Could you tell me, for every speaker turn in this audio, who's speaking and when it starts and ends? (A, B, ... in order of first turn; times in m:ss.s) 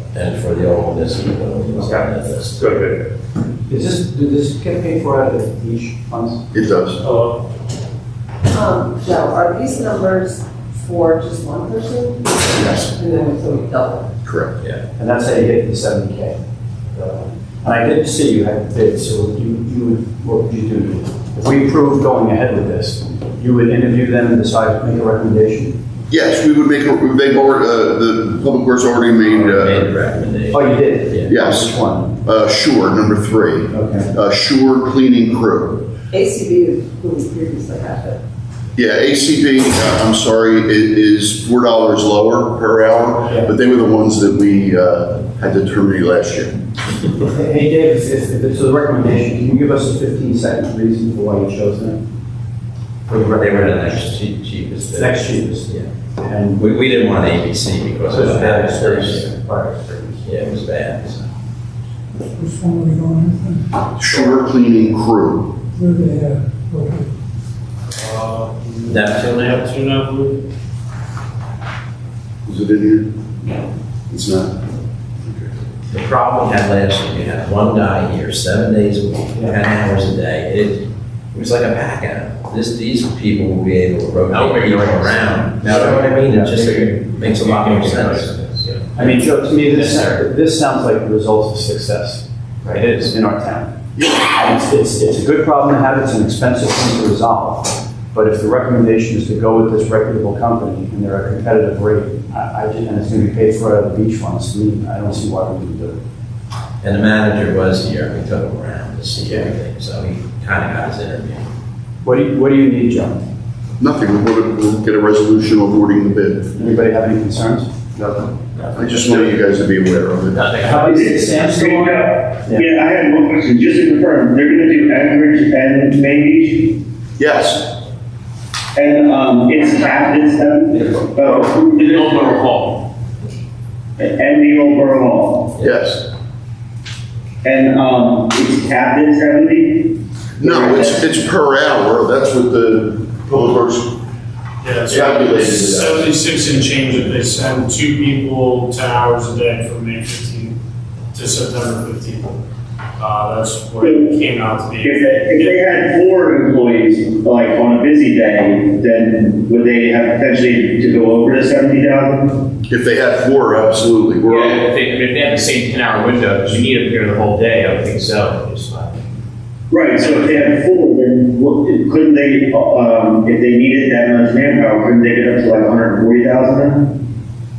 0:00.1-0:02.7 A
0:03.7-0:06.4 B
0:06.5-0:07.0 C
0:08.5-0:14.1 D
0:12.5-0:12.9 C
0:14.2-0:14.6 C
0:15.0-0:16.4 B
0:16.9-0:25.8 B
0:26.1-0:29.9 C
0:29.3-0:31.3 A
0:30.5-0:32.2 B
0:31.3-0:35.8 C
0:33.7-0:34.1 B
0:36.1-0:38.2 D
0:38.8-0:46.5 C
0:47.2-0:52.0 B
0:53.1-0:55.9 A
0:53.1-0:54.1 B
0:54.8-0:56.7 B
0:56.6-0:59.3 A
0:58.1-1:00.3 B
1:00.2-1:01.3 A
1:02.4-1:03.6 E
1:04.0-1:05.6 C
1:05.8-1:07.0 E
1:08.0-1:10.4 F
1:08.9-1:09.6 A
1:12.5-1:13.1 C
1:14.1-1:14.6 C
1:15.2-1:15.5 C
1:15.9-1:28.4 A
1:24.3-1:25.4 G
1:25.6-1:26.8 B
1:27.4-1:30.2 G
1:28.9-1:46.0 B
1:46.8-1:51.5 A
1:49.2-1:49.5 B
1:52.0-1:53.2 B
1:53.8-1:56.7 C
1:56.6-1:59.1 B
1:58.8-2:00.4 C
2:00.3-2:01.0 G
2:00.6-2:02.7 B
2:00.8-2:06.8 H
2:07.2-2:07.7 C
2:08.8-2:12.4 H
2:09.6-2:10.1 D
2:11.2-2:12.8 G
2:14.0-2:15.5 H
2:15.6-2:16.0 C
2:17.4-2:21.0 H
2:20.4-2:24.0 C
2:24.6-2:30.6 F
2:24.9-2:26.1 C
2:31.1-2:32.4 F
2:33.0-2:35.8 F
2:33.8-2:34.1 H
2:34.8-2:42.5 H
2:42.7-2:44.7 C
2:44.2-2:49.0 G
2:49.7-2:56.9 H
2:50.0-2:50.5 G